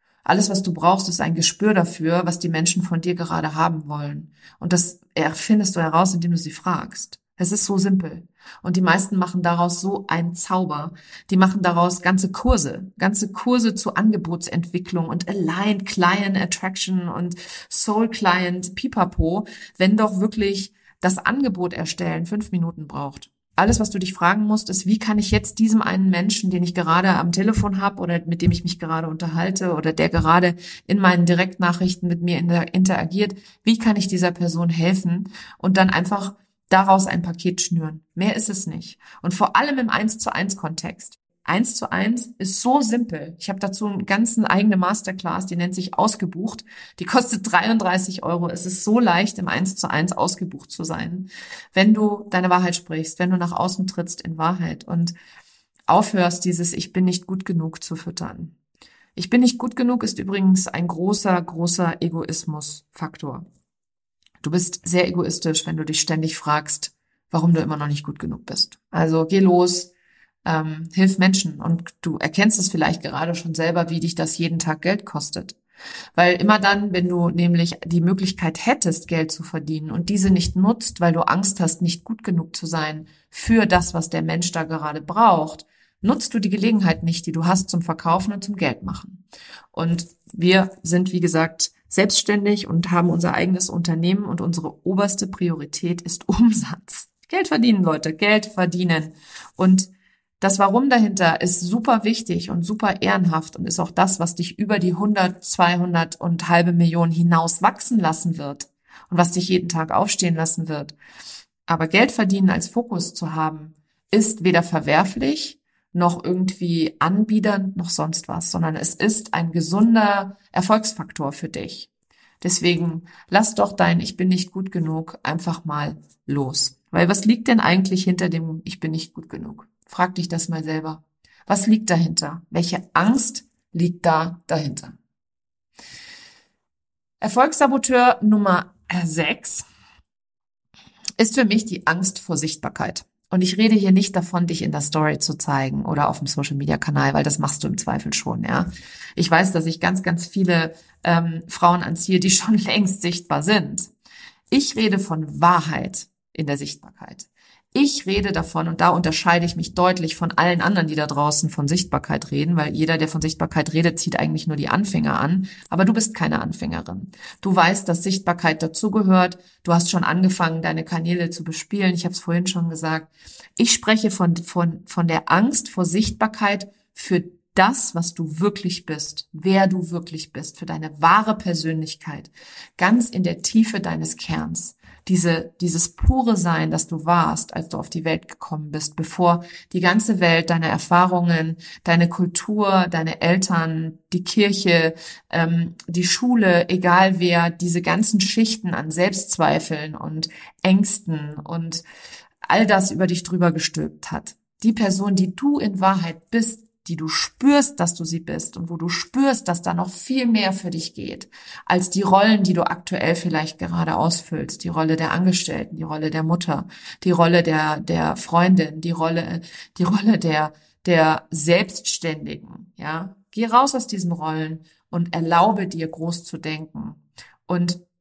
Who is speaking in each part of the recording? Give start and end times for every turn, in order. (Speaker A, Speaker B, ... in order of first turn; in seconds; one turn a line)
Speaker A: 0.2-55.1
Speaker A: 55.9-58.5
Speaker A: 59.2-63.5
Speaker A: 64.4-69.9
Speaker A: 70.5-75.6
Speaker A: 76.2-89.2
Speaker A: 89.7-99.9
Speaker A: 100.4-111.0
Speaker A: 111.7-121.9
Speaker A: 122.4-135.0
Speaker A: 137.2-139.7
Speaker A: 141.2-153.9
Speaker A: 154.5-201.8
Speaker A: 202.5-227.8